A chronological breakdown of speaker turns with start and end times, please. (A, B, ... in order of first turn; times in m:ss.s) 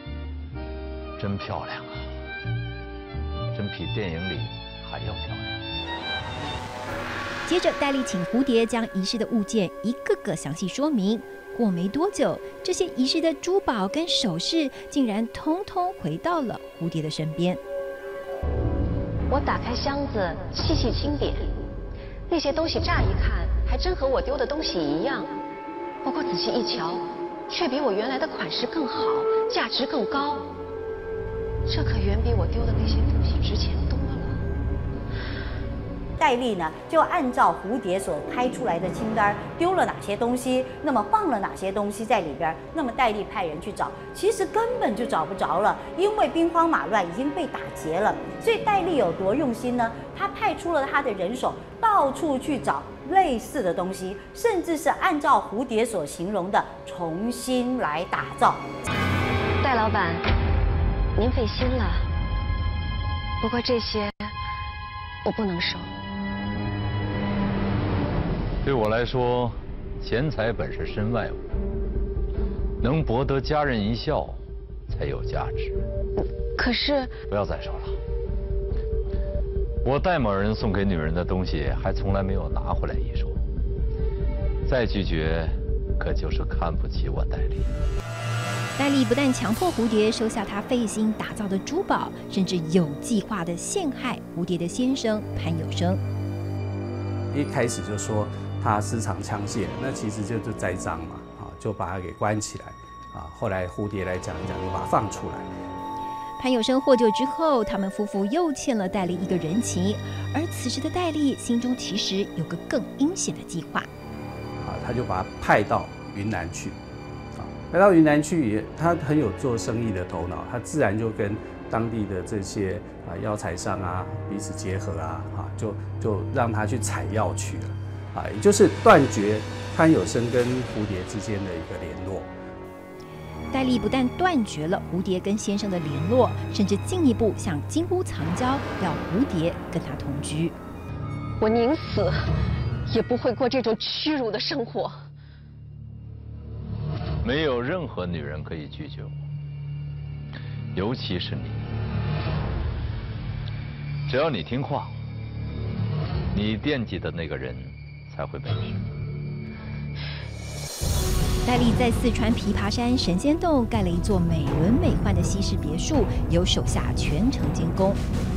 0:01.2-0:02.1 A
0:03.5-0:05.6 A
0:07.5-0:17.6 B
0:19.3-0:21.6 C
0:22.3-0:25.4 C
0:26.0-0:30.5 C
0:31.6-0:34.5 C
0:36.2-0:58.6 D
0:59.6-1:00.3 C
1:01.2-1:02.1 C
1:03.4-1:04.3 C
1:05.2-1:05.9 C
1:08.6-1:11.4 A
1:12.8-1:15.8 A
1:16.6-1:17.2 C
1:17.3-1:18.0 A
1:19.8-1:23.4 A
1:24.6-1:27.7 A
1:28.8-1:36.0 B
1:37.3-1:45.5 E
1:46.4-1:53.9 B
1:54.6-1:56.8 E
1:57.4-2:12.3 E
2:13.5-2:20.6 B
2:21.4-2:22.3 C
2:22.9-2:25.0 C
2:27.2-2:29.2 A
2:30.7-2:31.7 A
2:34.1-2:35.0 A
2:36.3-2:38.9 A
2:41.4-2:48.0 B